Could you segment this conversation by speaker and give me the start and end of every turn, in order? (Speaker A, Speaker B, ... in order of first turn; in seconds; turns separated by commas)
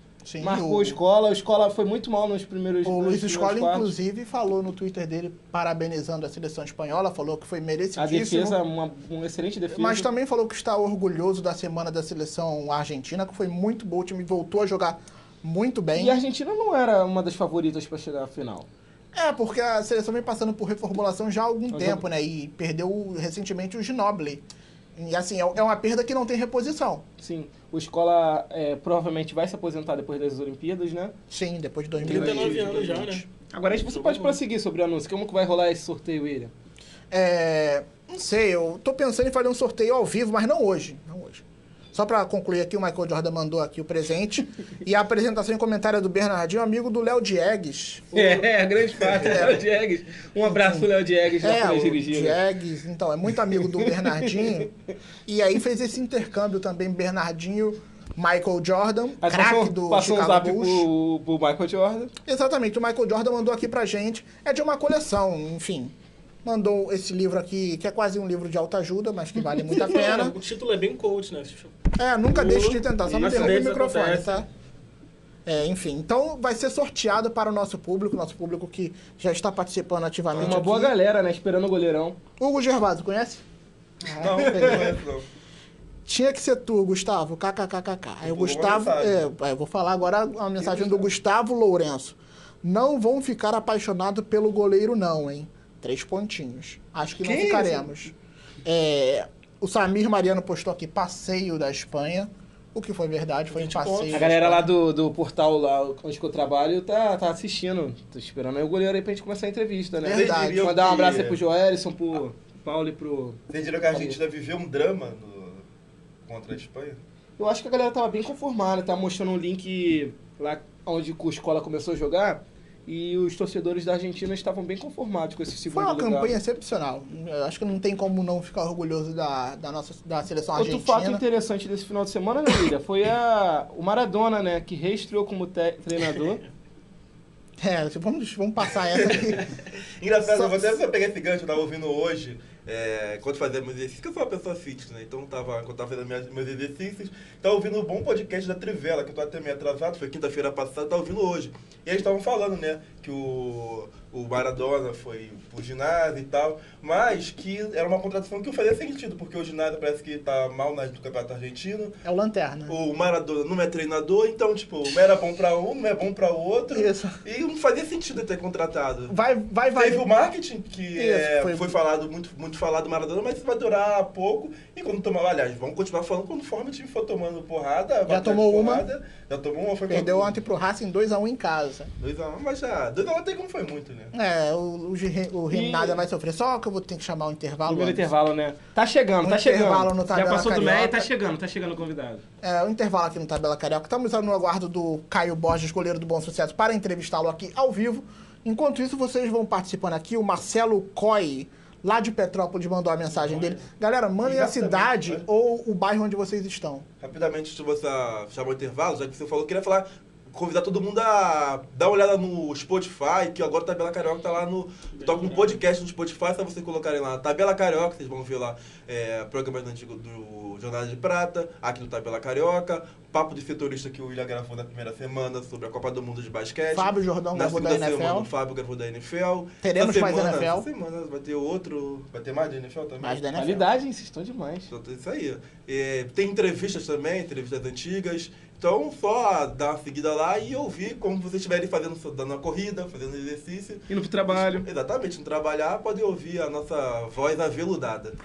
Speaker A: 0.2-1.0, Speaker B: 0.4-3.9, Speaker A: 2.9-8.6, Speaker B: 8.0-10.1, Speaker A: 9.7-16.2, Speaker B: 15.9-18.7, Speaker A: 19.1-24.4, Speaker B: 21.7-22.0, Speaker A: 25.0-27.1, Speaker B: 27.2-31.1, Speaker A: 31.3-33.3, Speaker C: 32.0-34.4, Speaker B: 32.0-33.0, Speaker B: 33.5-36.5, Speaker A: 37.1-48.5, Speaker B: 48.1-52.4, Speaker A: 49.2-49.6, Speaker A: 50.5-50.9, Speaker A: 51.4-54.7, Speaker B: 53.8-54.5, Speaker A: 55.3-60.9, Speaker B: 59.2-62.1, Speaker A: 62.2-70.4, Speaker C: 69.7-71.8, Speaker A: 72.0-74.5, Speaker C: 72.3-74.5, Speaker A: 75.5-80.9, Speaker D: 80.3-80.7, Speaker B: 80.4-82.2, Speaker A: 82.4-83.4, Speaker A: 84.0-85.0, Speaker D: 84.1-85.3, Speaker A: 86.0-104.7, Speaker D: 88.2-89.2, Speaker B: 90.6-91.0, Speaker B: 97.2-98.0, Speaker B: 103.7-114.2, Speaker A: 110.0-110.7, Speaker D: 110.0-111.4, Speaker D: 113.5-115.7, Speaker D: 116.3-117.0, Speaker B: 117.4-126.4, Speaker A: 125.7-131.2, Speaker B: 130.5-136.4, Speaker A: 137.6-139.4, Speaker D: 138.9-139.4, Speaker D: 140.0-162.0, Speaker A: 140.2-140.7, Speaker A: 162.0-162.8, Speaker D: 162.7-169.1, Speaker A: 166.7-167.2, Speaker A: 169.1-170.0, Speaker D: 169.8-180.3, Speaker A: 171.0-171.7, Speaker A: 178.1-178.9, Speaker A: 179.9-181.9, Speaker D: 182.0-184.1, Speaker A: 184.1-188.1, Speaker B: 185.5-186.0, Speaker B: 187.7-192.2, Speaker A: 189.2-191.1, Speaker A: 192.4-206.9, Speaker C: 203.3-203.6, Speaker D: 204.2-205.2, Speaker D: 207.0-233.3, Speaker C: 214.9-215.6, Speaker A: 226.7-228.3, Speaker A: 229.6-230.7, Speaker A: 233.0-233.7, Speaker B: 233.3-234.7, Speaker D: 234.7-248.2, Speaker B: 243.9-244.7